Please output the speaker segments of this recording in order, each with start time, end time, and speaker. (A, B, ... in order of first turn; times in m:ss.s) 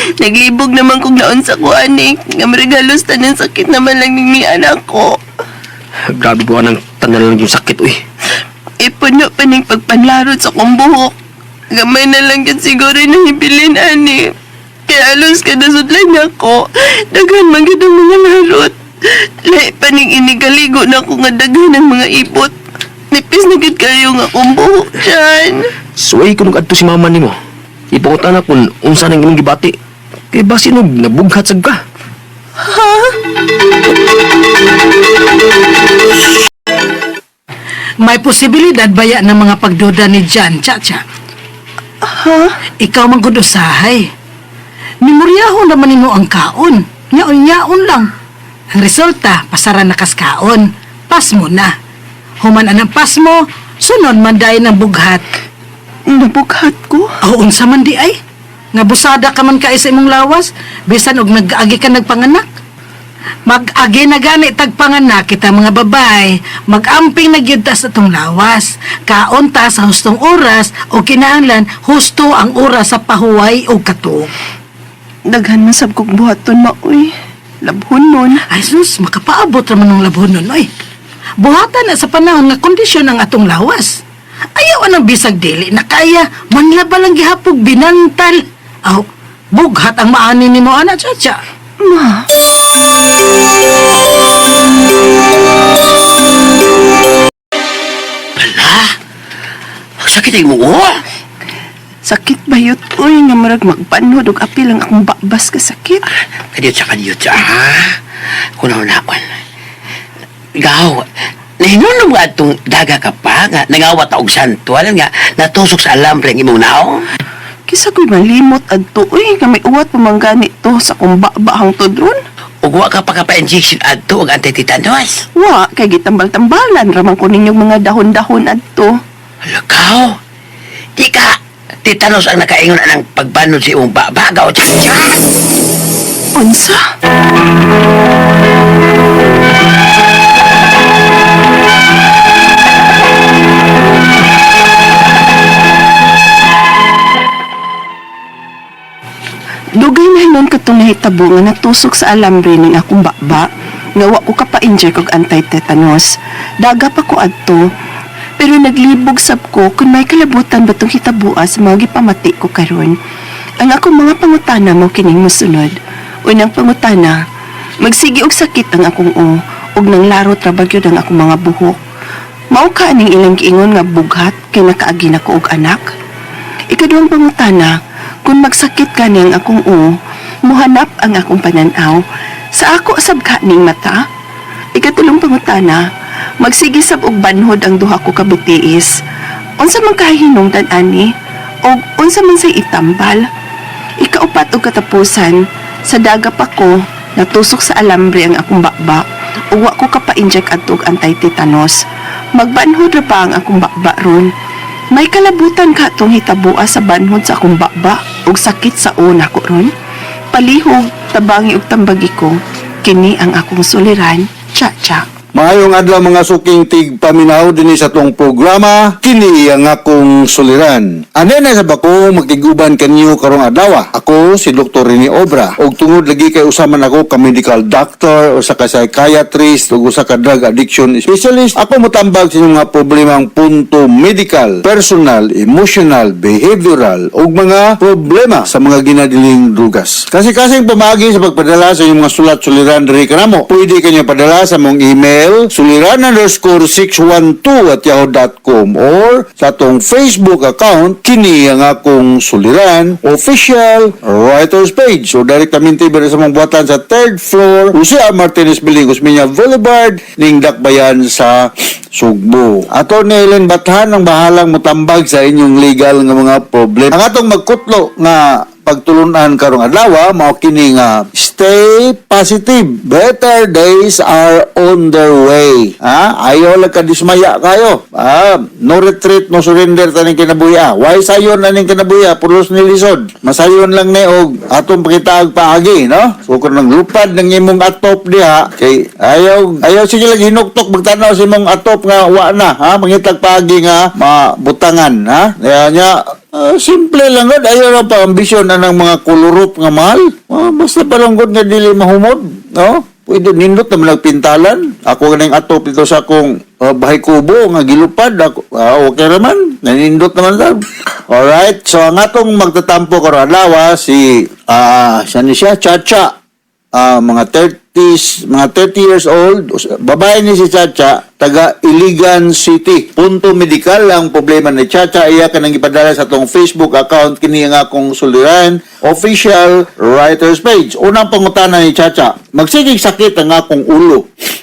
0:00.2-0:05.2 A
0:06.1-0:08.0 B
0:08.8-0:11.1 A
0:11.7-0:14.3 A
0:14.9-0:22.5 A
0:23.1-0:25.7 A
0:26.0-0:27.4 B
0:27.9-0:29.8 B
0:30.3-0:31.8 B
0:32.6-0:33.2 A
0:38.0-0:41.0 C
0:42.0-0:42.6 A
0:42.8-0:44.1 C
0:45.0-0:48.1 C
0:48.7-0:51.7 C
0:52.4-0:55.2 C
0:56.1-0:57.1 A
0:57.2-0:58.2 C
0:58.7-1:02.5 C
1:03.5-1:14.3 C
1:15.3-1:17.1 A
1:17.6-1:18.4 A
1:18.5-1:20.7 C
1:21.4-1:24.0 C
1:24.6-1:31.4 C
1:31.8-1:32.3 A
1:38.4-1:39.0 D
1:40.0-1:41.0 D
1:42.1-1:46.0 A
1:46.5-1:48.0 D
1:48.6-1:49.4 D
1:50.6-1:51.1 D
1:51.6-1:57.0 D
1:57.7-2:02.2 A
2:02.6-2:05.2 D
2:05.4-2:08.9 A
2:09.5-2:10.2 D
2:11.0-2:15.2 D
2:16.4-2:16.8 A
2:29.8-2:33.5 A
2:34.0-2:37.6 A
2:38.4-2:43.0 A
2:43.6-2:45.8 A
2:46.3-2:47.2 A
2:47.8-2:51.8 A
2:52.5-2:55.9 A
2:56.7-3:02.0 A
3:02.6-3:04.0 A
3:04.8-3:05.9 A
3:06.4-3:08.9 A
3:09.6-3:11.1 A
3:11.6-3:13.2 A
3:14.0-3:21.8 A
3:22.4-3:24.3 A
3:24.9-3:29.7 A
3:30.3-3:35.0 A
3:35.4-5:16.2 E
5:16.7-5:34.1 E